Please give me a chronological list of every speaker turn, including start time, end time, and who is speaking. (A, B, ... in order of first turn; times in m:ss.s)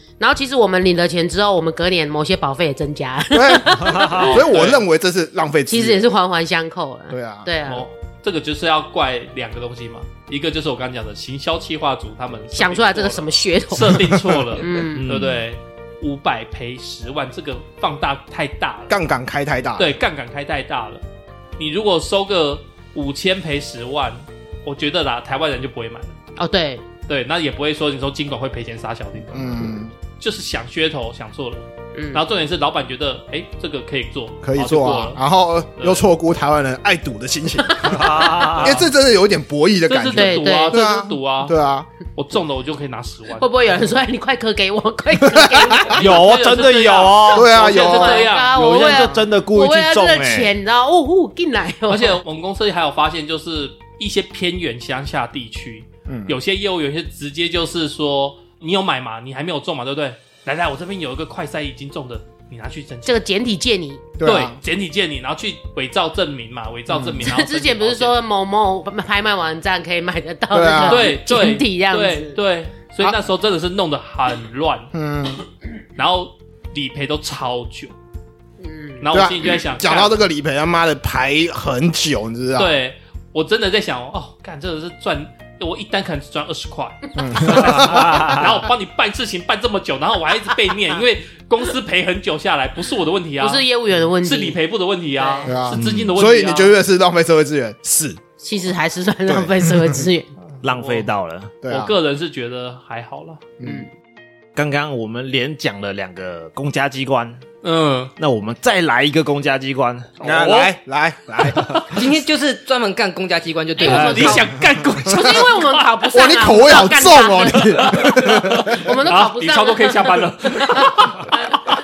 0:00.2-0:04.4 A
0:03.3-0:06.0 B
0:03.8-0:04.3 C
0:04.2-0:04.8 D
0:05.7-0:07.9 A
0:07.1-0:07.5 B
0:07.6-0:19.0 D
0:12.5-0:15.1 A
0:13.9-0:14.3 B
0:14.9-0:15.4 C
0:18.9-0:19.9 B
0:19.8-0:21.0 D
0:21.6-0:26.2 D
0:26.4-0:26.8 A
0:27.1-0:35.2 D
0:29.3-0:29.9 B
0:31.9-0:32.2 A
0:34.4-0:38.0 B
0:35.8-0:36.0 D
0:37.6-0:38.6 A
0:37.8-0:38.8 C
0:38.6-0:41.9 B
0:38.6-0:38.9 D
0:39.9-0:41.6 D
0:40.1-0:40.7 A
0:42.1-0:43.5 D
0:43.4-0:46.2 A
0:45.2-0:46.0 B
0:45.9-0:47.5 C
0:45.9-0:49.1 D
0:47.3-0:48.2 B
0:47.4-0:52.2 A
0:48.5-0:50.5 C
0:51.9-1:03.2 D
0:56.1-0:56.4 B
1:03.0-1:04.1 A
1:04.2-1:04.6 B
1:04.2-1:08.2 D
1:06.9-1:07.2 B
1:07.2-1:12.4 A
1:10.5-1:11.1 B
1:10.8-1:14.9 D
1:14.9-1:15.4 B
1:16.0-1:17.9 D
1:18.6-1:19.0 A
1:19.0-1:20.2 D
1:19.1-1:22.8 B
1:22.6-1:33.6 D
1:27.2-1:27.4 A
1:27.2-1:28.5 B
1:27.7-1:28.5 C
1:33.4-1:34.6 A
1:34.2-1:36.8 D
1:35.1-1:35.6 A
1:35.4-1:38.2 B
1:35.8-1:36.1 C
1:38.4-1:40.3 A
1:39.2-1:40.0 B
1:40.5-1:41.1 D
1:40.6-1:41.6 C
1:41.6-1:41.9 B
1:41.7-1:43.5 D
1:43.6-1:43.8 B
1:43.6-1:43.9 A
1:44.5-1:47.4 C
1:47.6-1:48.1 D
1:48.2-1:50.2 C
1:50.2-1:50.7 D
1:50.2-1:51.9 B
1:51.6-1:51.9 C
1:51.9-1:54.5 E
1:53.8-1:54.5 A
1:53.8-1:56.1 D
1:55.0-2:01.0 A
1:55.1-1:55.4 B
1:56.1-1:58.9 B
1:57.8-2:01.3 D